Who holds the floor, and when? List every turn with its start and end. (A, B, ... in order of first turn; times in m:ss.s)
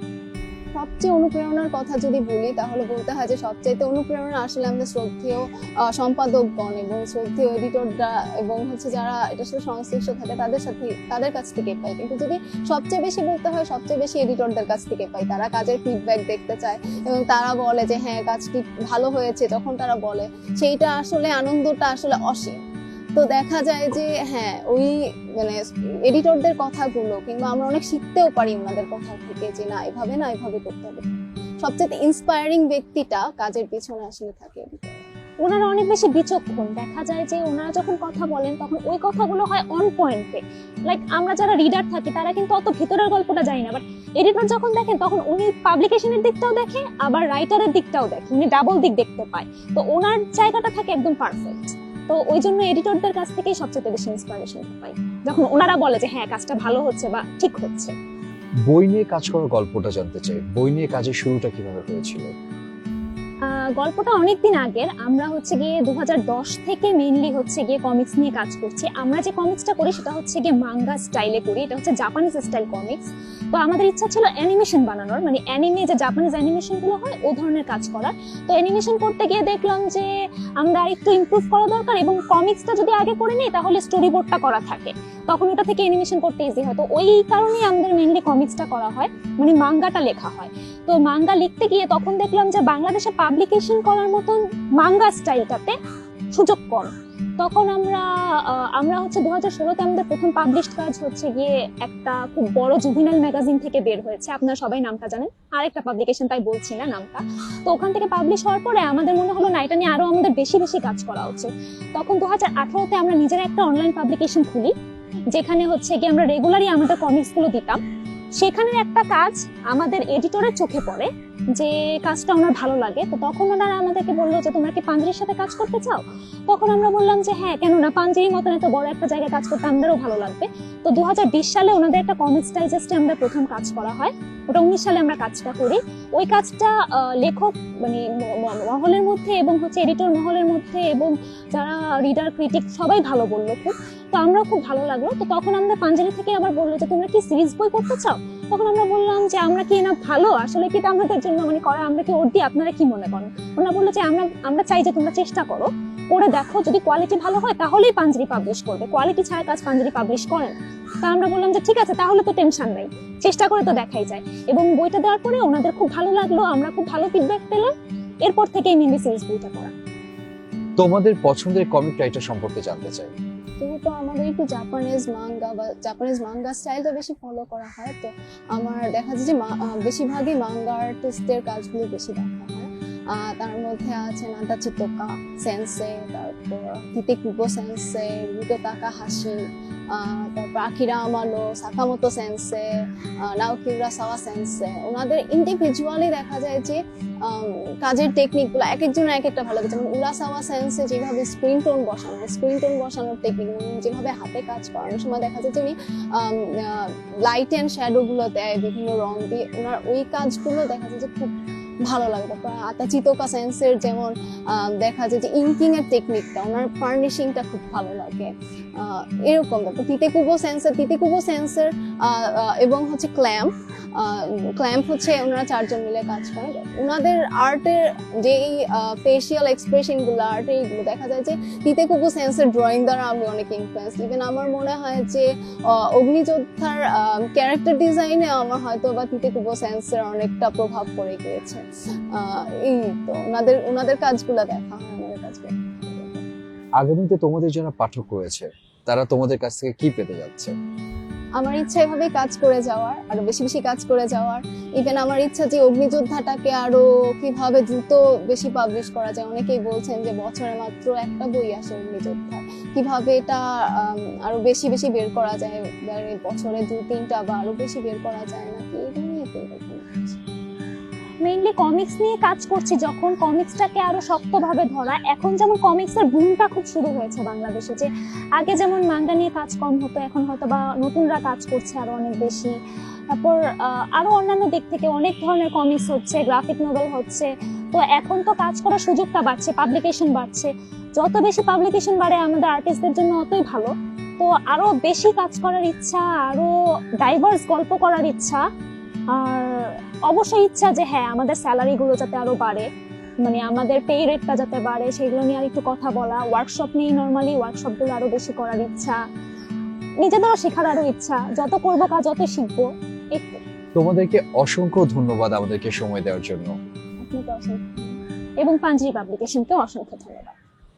0:00.8-0:22.6 A
0:23.2-0:35.1 A
0:35.4-0:58.0 B
0:58.7-1:02.3 C
1:03.8-1:20.1 B
1:20.6-1:35.8 B
1:36.3-1:54.7 B
1:55.3-1:57.8 B
1:58.4-2:47.7 B
2:48.2-2:49.7 B
2:50.8-2:53.1 C
2:53.6-3:09.4 A
3:09.9-3:12.6 A
3:13.2-3:31.3 A
3:31.8-4:06.2 A
4:06.8-4:10.5 C
4:11.4-4:30.2 A
4:31.2-4:42.5 B
4:43.2-4:58.4 B
4:59.2-5:02.7 B
5:03.2-5:09.0 B
5:10.0-5:13.4 B
5:13.8-5:16.5 C
5:17.0-5:18.0 A
5:18.4-5:20.3 B